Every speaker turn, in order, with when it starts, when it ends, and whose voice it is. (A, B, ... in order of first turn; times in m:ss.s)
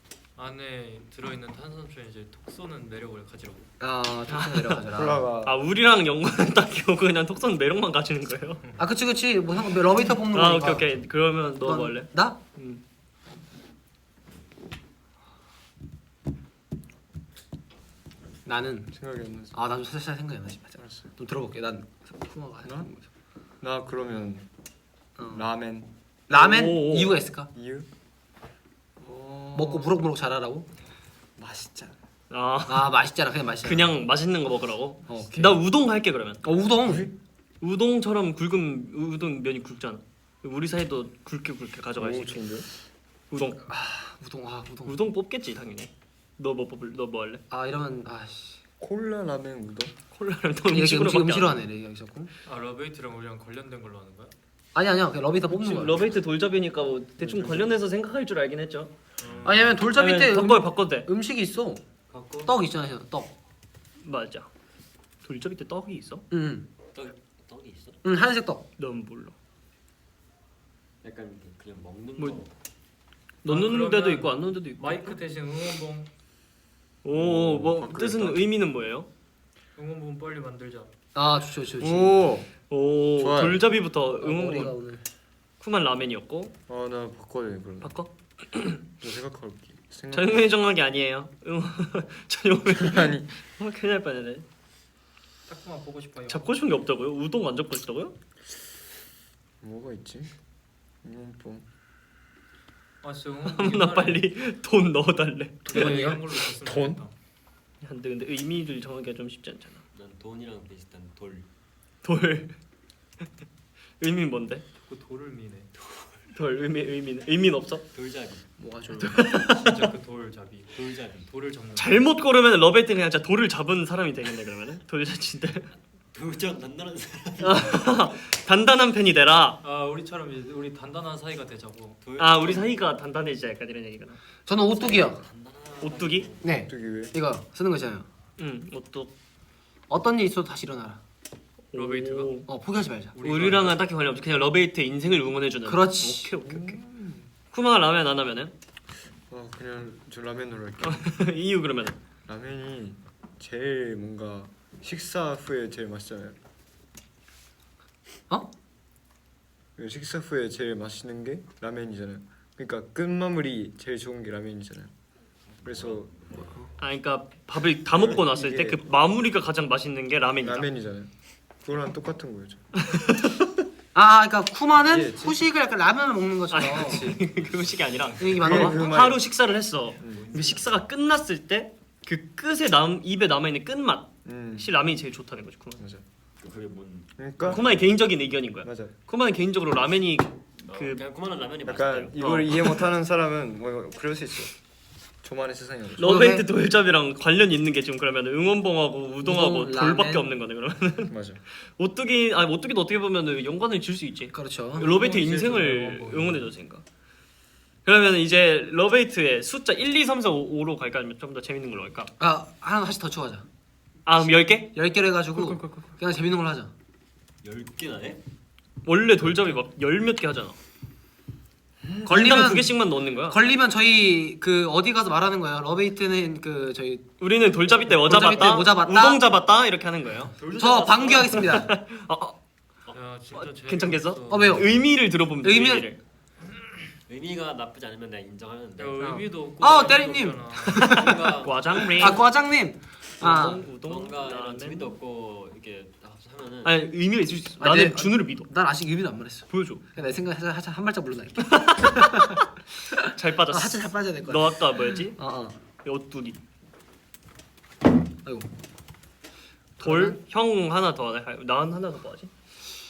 0:00.3-0:03.6 A
0:03.8-0:05.3 B
0:04.3-0:04.8 C
0:04.9-0:05.6 D
0:05.4-0:08.6 C
0:08.8-0:10.9 B
0:10.3-0:12.8 C
0:11.6-0:12.4 B
0:18.4-0:18.9 B
0:18.9-0:19.6 D
0:19.5-0:23.0 B
0:20.8-0:21.1 D
0:22.6-0:22.9 D
0:23.6-0:24.4 D
0:25.2-0:25.4 B
0:25.3-0:25.9 D
0:26.3-0:27.5 B
0:26.3-0:27.2 C
0:27.5-0:27.9 D
0:29.0-0:30.0 D
0:29.5-0:30.7 B
0:31.4-0:31.9 D
0:32.3-0:32.9 C
0:32.7-0:33.9 B
0:33.6-0:36.4 C
0:35.1-0:35.6 B
0:36.4-0:37.1 B
0:36.8-0:37.1 D
0:37.6-0:42.4 C
0:42.0-0:42.7 D
0:43.3-0:43.6 C
0:43.7-0:45.0 B
0:44.8-0:47.4 C
0:47.5-0:48.6 B
0:48.8-0:49.9 D
0:50.1-0:51.6 C
0:50.7-0:52.3 B
0:52.4-0:54.3 A
0:54.7-0:56.1 B
0:55.5-0:58.9 C
0:57.2-0:57.7 D
0:59.2-0:59.7 E
0:59.2-0:59.6 A
0:59.4-1:01.8 B
0:59.8-1:01.1 C
1:02.1-1:02.5 A
1:02.4-1:03.3 B
1:04.0-1:04.5 C
1:05.2-1:06.2 C
1:06.3-1:06.7 B
1:06.9-1:08.0 E
1:08.0-1:08.6 B
1:08.8-1:09.3 C
1:11.0-1:12.5 E
1:13.4-1:15.2 C
1:13.5-1:16.1 A
1:17.0-1:19.1 C
1:17.1-1:18.4 D
1:19.8-1:20.9 A
1:21.1-1:22.2 B
1:21.8-1:22.5 D
1:22.7-1:24.8 C
1:23.2-1:23.6 D
1:24.2-1:25.0 B
1:25.6-1:26.5 C
1:26.7-1:27.9 D
1:27.8-1:28.8 C
1:29.0-1:30.5 D
1:30.1-1:34.4 C
1:32.7-1:33.3 D
1:35.5-1:36.6 A
1:36.3-1:38.1 C
1:39.6-1:40.3 D
1:41.0-1:41.6 D
1:43.0-1:44.2 A
1:43.4-1:46.2 C
1:45.6-1:47.0 D
1:45.7-1:47.1 A
1:47.8-1:49.8 C
1:49.9-1:51.4 E
1:52.0-1:52.5 C
1:54.0-1:54.6 C
1:54.8-1:55.7 A
1:56.3-1:57.8 C
1:57.9-1:58.4 E
1:58.6-1:59.3 B
1:59.0-1:59.9 C
1:59.5-2:02.0 A
2:00.7-2:01.3 E
2:01.8-2:05.7 C
2:06.1-2:07.8 E
2:07.4-2:09.6 C
2:09.6-2:12.0 A
2:12.0-2:12.8 E
2:12.2-2:14.2 C
2:14.4-2:15.2 B
2:14.8-2:16.5 E
2:15.8-2:16.3 C
2:16.4-2:18.0 B
2:16.7-2:17.1 D
2:18.4-2:19.1 C
2:19.9-2:21.0 B
2:21.7-2:22.5 C
2:21.7-2:22.3 A
2:22.5-2:23.1 B
2:23.1-2:23.8 A
2:23.2-2:26.8 C
2:25.6-2:26.3 B
2:26.4-2:27.3 D
2:27.5-2:28.5 C
2:29.3-2:31.1 D
2:30.8-2:32.0 C
2:32.3-2:36.4 D
2:39.8-2:44.9 D
2:45.6-2:46.8 E
2:45.6-2:46.4 D
2:46.8-2:50.7 C
2:47.9-2:48.8 D
2:50.4-2:52.8 D
2:52.8-2:53.6 C
2:53.9-2:57.1 B
2:54.9-2:55.4 D
2:56.5-3:05.8 C
2:56.8-2:57.3 D
2:58.2-2:58.9 B
2:58.4-2:59.2 D
3:00.0-3:00.7 E
3:04.2-3:04.7 D
3:05.8-3:06.0 D
3:06.4-3:07.6 E
3:07.2-3:07.6 D
3:07.4-3:11.0 C
3:08.6-3:08.9 D
3:10.7-3:12.4 E
3:11.6-3:14.5 D
3:12.2-3:12.8 C
3:15.2-3:16.1 D
3:16.0-3:16.4 B
3:16.0-3:26.8 C
3:19.2-3:20.3 B
3:21.1-3:21.4 D
3:24.3-3:24.8 B
3:24.8-3:26.5 A
3:27.8-3:32.1 C
3:32.2-3:33.4 B
3:34.0-3:34.8 C
3:34.7-3:36.7 B
3:35.3-3:35.9 C
3:37.4-3:38.2 E
3:38.8-3:40.6 C
3:42.0-3:42.7 B
3:42.1-3:43.4 C
3:43.2-3:47.0 B
3:47.2-3:50.3 C
3:47.9-3:49.2 B
3:50.4-3:51.6 E
3:50.5-3:51.7 B
3:51.4-3:52.4 C
3:52.9-3:54.7 A
3:53.3-3:56.0 C
3:54.3-3:54.7 B
3:55.4-3:55.9 B
3:57.1-3:59.2 E
3:58.8-4:02.2 A
3:59.0-4:01.2 B
4:00.8-4:02.3 C
4:02.0-4:03.6 B
4:03.2-4:05.0 C
4:03.8-4:06.7 E
4:06.6-4:08.5 C
4:07.6-4:15.6 B
4:09.5-4:09.8 C
4:11.4-4:12.4 C
4:13.0-4:15.2 C
4:15.8-4:16.4 C
4:19.8-4:22.3 C
4:19.8-4:20.2 B